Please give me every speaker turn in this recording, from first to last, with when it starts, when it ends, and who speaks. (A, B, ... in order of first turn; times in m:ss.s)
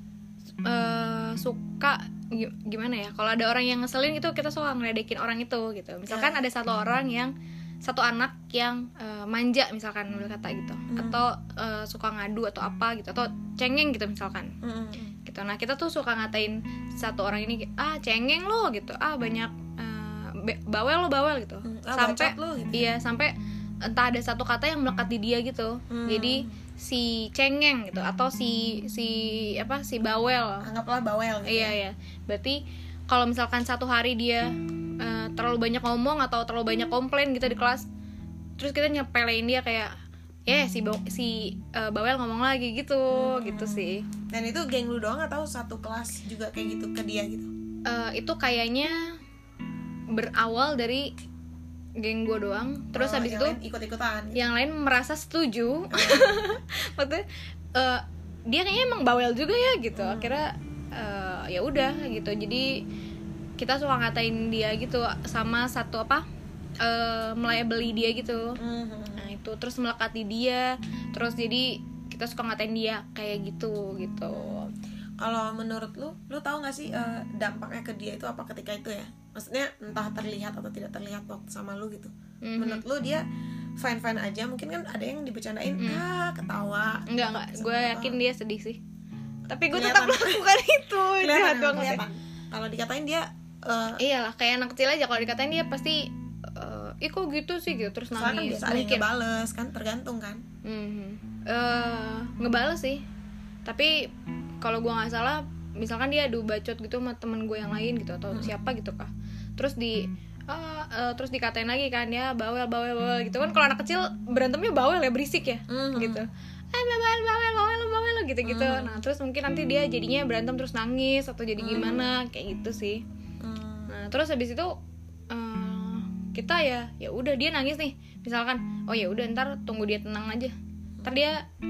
0:00.6-0:14.5 A
0:06.1-0:06.4 B
0:10.9-0:11.2 B
0:14.6-0:15.2 B
0:15.2-0:23.3 A
0:21.7-0:23.0 B
0:23.8-0:30.7 A
0:25.9-0:26.6 B
0:30.6-0:31.8 B
0:31.4-0:37.9 A
0:38.6-0:39.9 A
0:40.5-0:44.0 A
0:43.1-0:47.5 B
0:47.9-0:49.2 A
0:50.1-0:51.1 A
0:52.0-0:53.6 A
0:53.0-0:54.5 B
0:54.4-0:57.2 A
0:55.9-0:56.6 B
0:57.8-1:02.7 A
1:00.0-1:00.4 B
1:03.6-1:06.3 A
1:06.8-1:08.6 A
1:08.6-1:09.3 B
1:09.2-1:14.7 A
1:14.3-1:14.6 B
1:15.2-1:23.2 B
1:22.4-1:22.8 A
1:23.8-1:28.2 B
1:27.1-1:28.8 A
1:29.5-1:32.0 A
1:29.7-1:30.4 B
1:31.2-1:34.0 B
1:34.0-1:39.1 A
1:38.1-1:40.4 B
1:40.6-1:43.0 A
1:43.7-1:44.1 A
1:44.6-2:03.0 A
1:55.7-1:56.2 B
1:58.4-1:59.0 B
2:01.6-2:02.1 B
2:03.4-2:04.0 B
2:03.9-2:04.8 A
2:05.3-2:11.4 A